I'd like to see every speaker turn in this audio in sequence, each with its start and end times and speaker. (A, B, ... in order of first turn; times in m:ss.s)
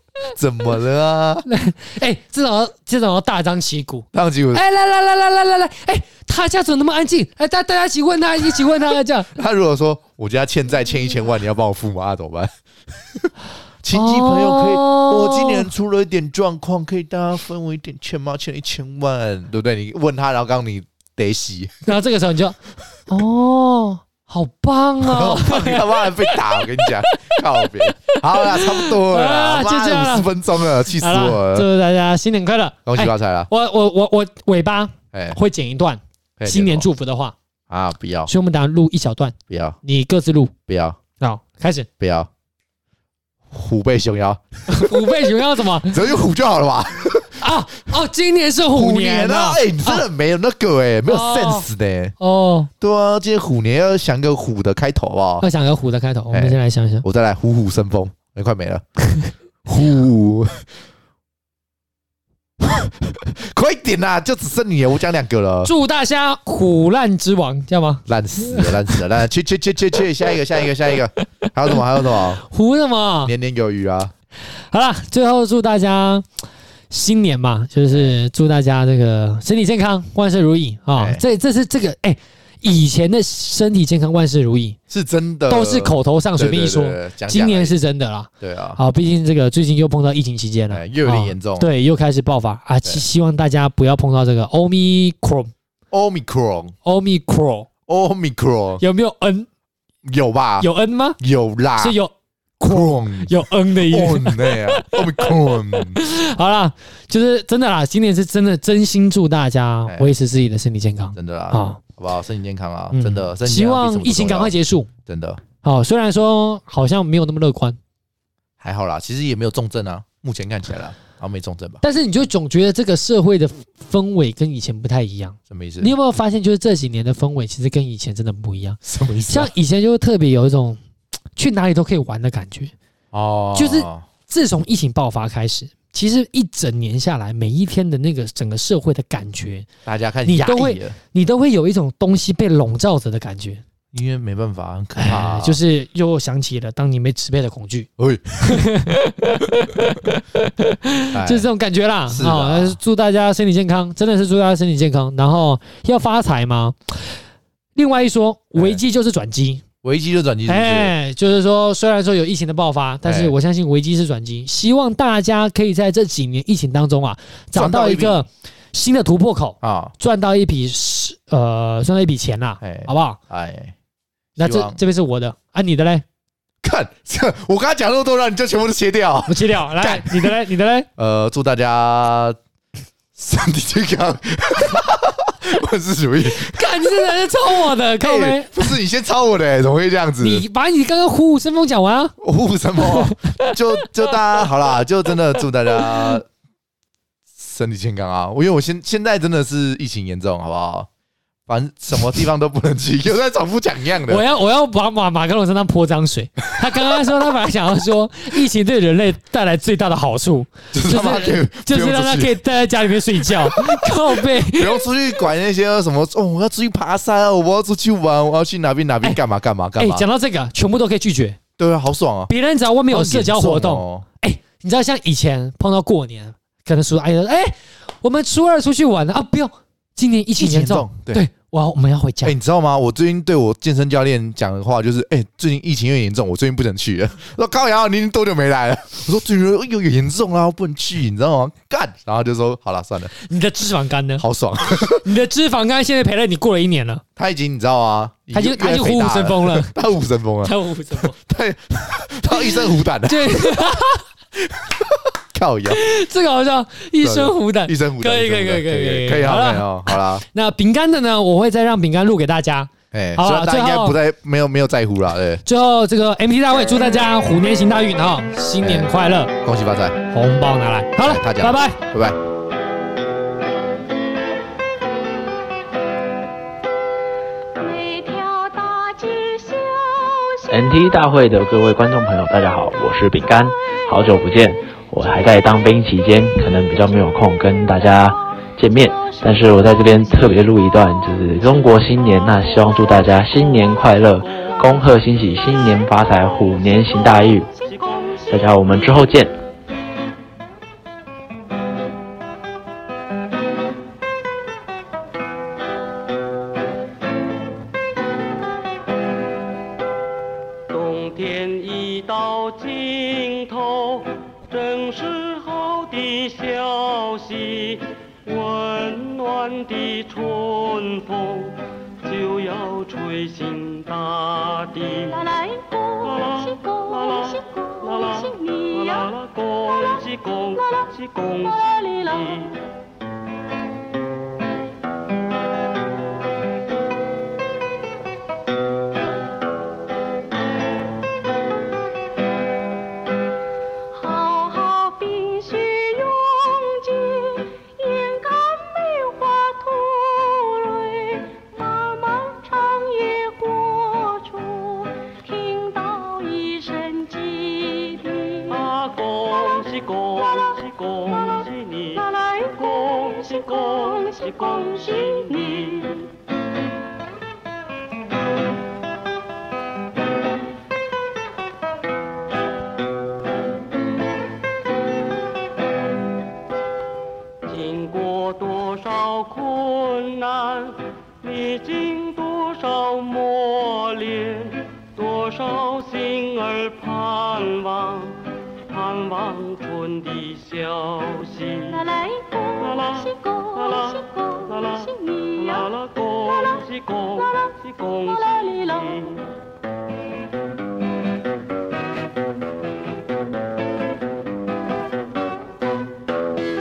0:00.3-0:01.5 A
0:01.5-0:09.3 B
0:04.1-0:04.6 A
0:09.3-0:13.3 A
0:13.8-0:21.8 A
0:13.9-0:15.7 B
0:21.8-0:22.6 B
0:23.1-0:26.9 B
0:25.0-0:31.7 A
0:27.6-0:30.3 B
0:30.8-0:37.4 B
0:32.9-0:33.5 A
0:35.1-0:35.4 A
0:36.4-0:36.9 A
0:37.7-0:38.3 A
0:38.3-0:40.5 B
0:39.5-0:39.8 A
0:40.7-0:41.0 A
0:41.2-0:41.9 B
0:42.0-0:42.3 A
0:43.5-0:45.2 A
0:44.7-0:46.2 B
0:45.8-0:47.4 A
0:47.4-0:50.0 B
0:48.7-0:52.2 A
0:51.1-0:51.7 B
0:52.2-0:52.7 B
0:52.8-0:55.5 A
0:55.4-0:57.0 B
0:56.3-0:58.8 A
0:59.6-1:00.7 A
1:02.6-1:05.7 A
1:05.6-1:08.8 B
1:08.1-1:12.4 A
1:12.0-1:13.3 B
1:13.2-1:14.1 A
1:14.7-1:16.3 B
1:16.9-1:24.8 B
1:17.9-1:18.2 A
1:21.0-1:21.2 A
1:24.9-1:27.8 A
1:25.5-1:35.5 B
1:28.4-1:28.8 A
1:30.7-1:31.7 A
1:35.9-1:36.7 A
1:36.8-1:37.7 B
1:37.9-1:38.8 A
1:38.8-1:39.5 B
1:40.0-1:42.0 A
1:40.6-1:41.2 B
1:41.8-1:51.8 B
1:42.7-1:46.0 A
1:49.9-1:50.1 A
1:51.1-1:55.4 A
1:52.9-1:54.9 B
1:55.6-1:57.8 B
1:58.6-2:01.8 A
2:01.8-2:10.8 B
2:05.5-2:05.9 A
2:08.8-2:09.5 A
2:11.4-2:12.7 B
2:13.1-2:14.1 A
2:13.5-2:19.7 B
2:19.8-2:21.0 A
2:20.2-2:23.6 B
2:23.9-2:25.6 A
2:25.0-2:37.1 B
2:28.0-2:28.7 A
2:31.1-2:31.5 A
2:32.1-2:32.8 A
2:37.8-2:39.6 B
2:38.6-2:38.8 A
2:39.8-2:40.9 A
2:40.5-2:53.2 B
2:43.0-2:43.4 A
2:47.6-2:48.2 A
2:49.6-2:49.9 A
2:52.6-2:53.8 A
2:54.4-2:56.0 B
2:54.4-2:54.8 A
2:56.6-3:00.4 A
2:59.3-3:00.9 B
3:01.0-3:02.4 A
3:03.2-3:07.1 A
3:06.3-3:08.7 B
3:07.9-3:10.5 A
3:10.2-3:12.2 B
3:12.2-3:16.2 A
3:12.8-3:13.5 B
3:17.4-3:20.9 A
3:21.5-3:24.2 A
3:24.1-3:34.9 B
3:30.7-3:32.4 A
3:33.2-3:40.0 A
3:39.8-3:41.4 B
3:41.6-3:42.3 A
3:42.3-3:52.3 B
3:42.9-3:44.1 A
3:50.4-3:51.3 A
3:52.2-4:03.1 A
4:03.1-4:07.0 B
4:04.2-4:05.0 A
4:07.2-4:13.8 A
4:08.3-4:09.7 B
4:10.4-4:11.1 B
4:13.0-4:14.0 B
4:14.4-4:15.8 A
4:15.7-4:24.0 B
4:17.0-4:20.2 A
4:22.9-4:25.4 A
4:25.5-4:29.3 B
4:28.6-4:30.0 A
4:30.1-4:31.8 B
4:31.0-4:32.2 A
4:37.6-4:40.5 C
4:40.5-4:57.5 D
4:48.9-4:49.6 C
4:57.3-4:58.2 C
4:57.7-4:58.2 E
4:58.3-4:59.4 D
5:10.7-5:25.3 E
5:25.1-5:29.1 C
5:26.0-5:32.6 E
5:31.6-5:32.4 C
5:43.9-5:58.7 C
5:58.5-6:02.0 E
6:01.9-6:06.0 C
6:02.7-6:06.1 E
6:17.4-6:31.9 E
6:31.7-6:35.7 C
6:32.6-6:39.2 E
6:38.1-6:39.2 C